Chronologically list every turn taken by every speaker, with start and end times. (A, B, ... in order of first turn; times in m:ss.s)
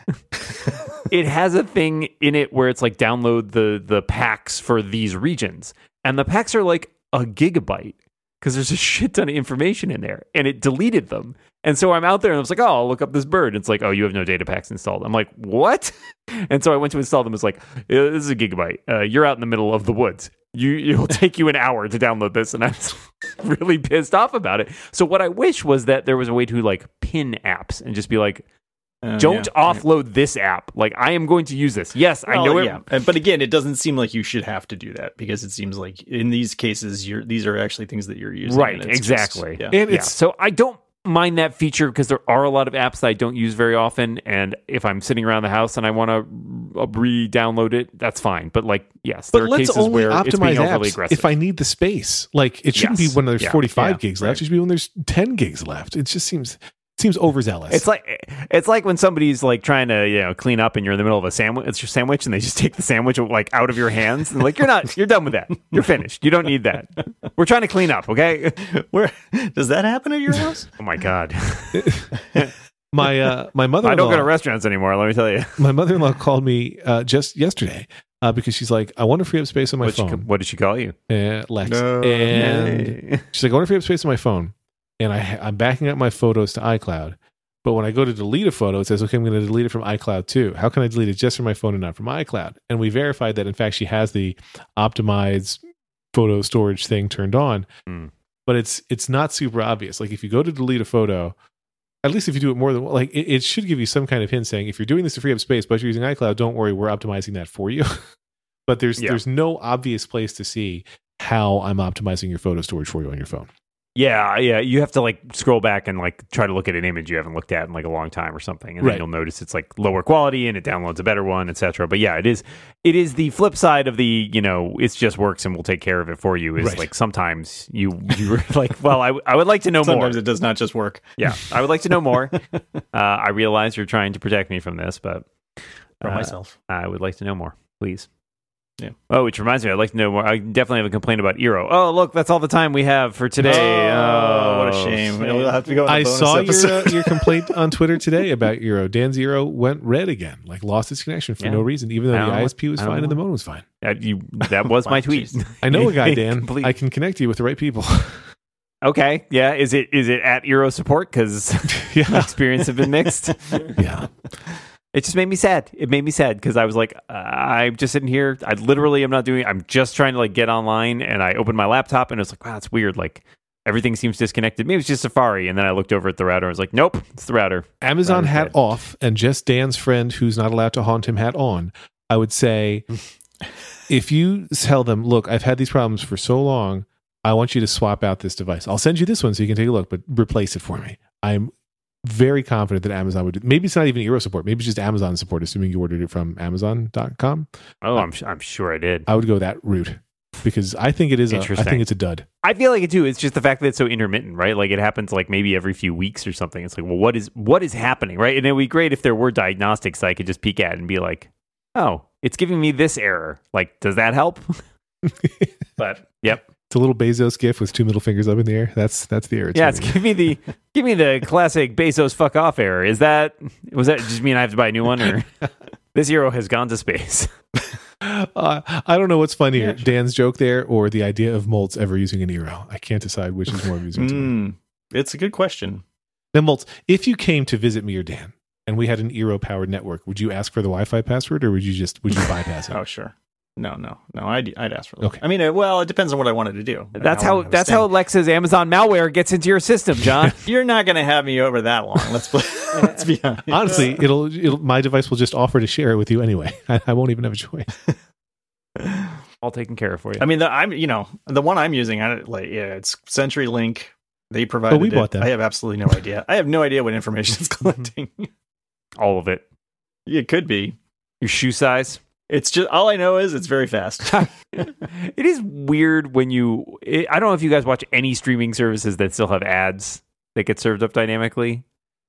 0:00.4-0:00.8 A
0:01.1-0:28.4 B
0:29.0-0:29.8 A
0:29.2-0:32.8 B
0:32.3-0:39.8 A
0:38.4-0:51.3 B
0:39.7-0:40.1 C
0:49.3-0:57.8 C
0:52.7-0:54.4 B
0:57.7-1:08.6 B
1:08.6-1:10.7 A
1:10.8-1:12.5 B
1:11.7-1:12.1 C
1:12.9-1:14.3 C
1:13.8-1:15.6 B
1:15.6-1:20.2 C
1:19.8-1:20.9 B
1:21.1-1:35.6 C
1:21.6-1:22.8 A
1:22.3-1:23.2 B
1:36.1-1:37.7 C
1:38.5-1:41.4 C
1:42.0-1:48.1 C
1:48.7-1:53.5 C
1:54.0-2:10.2 B
2:06.6-2:06.9 C
2:09.8-2:11.6 A
2:11.2-2:12.3 B
2:12.2-2:12.8 A
2:12.9-2:15.3 B
2:16.0-2:18.1 B
2:16.0-2:16.5 A
2:19.1-2:25.6 B
2:23.4-2:23.9 C
2:23.4-2:27.3 A
2:25.9-2:33.6 C
2:31.4-2:33.2 B
2:33.8-2:36.7 B
2:34.4-2:35.4 A
2:35.6-2:38.3 C
2:38.8-2:43.8 B
2:41.7-2:42.3 C
2:43.8-2:44.1 C
2:44.9-2:58.5 B
2:57.8-3:02.8 C
3:03.9-3:11.5 C
3:12.0-3:18.1 C
3:17.8-3:19.1 B
3:19.1-3:22.2 C
3:21.3-3:21.8 B
3:22.4-3:34.6 B
3:35.0-3:35.5 C
3:35.8-3:36.4 B
3:36.7-3:40.0 C
3:39.5-3:45.4 B
3:45.9-3:47.3 B
3:48.0-3:54.3 C
3:49.6-3:49.8 A
3:53.9-3:55.8 A
3:56.3-4:02.8 C
4:02.7-4:07.9 A
4:07.0-4:10.4 B
4:10.4-4:14.0 A
4:13.5-4:17.7 C
4:18.8-4:19.1 A
4:19.4-4:20.2 B
4:20.2-4:28.3 A
4:24.7-4:25.3 C
4:29.0-4:29.4 B
4:30.1-4:30.8 A
4:31.2-4:32.0 B
4:32.3-4:34.3 A
4:34.1-4:41.6 B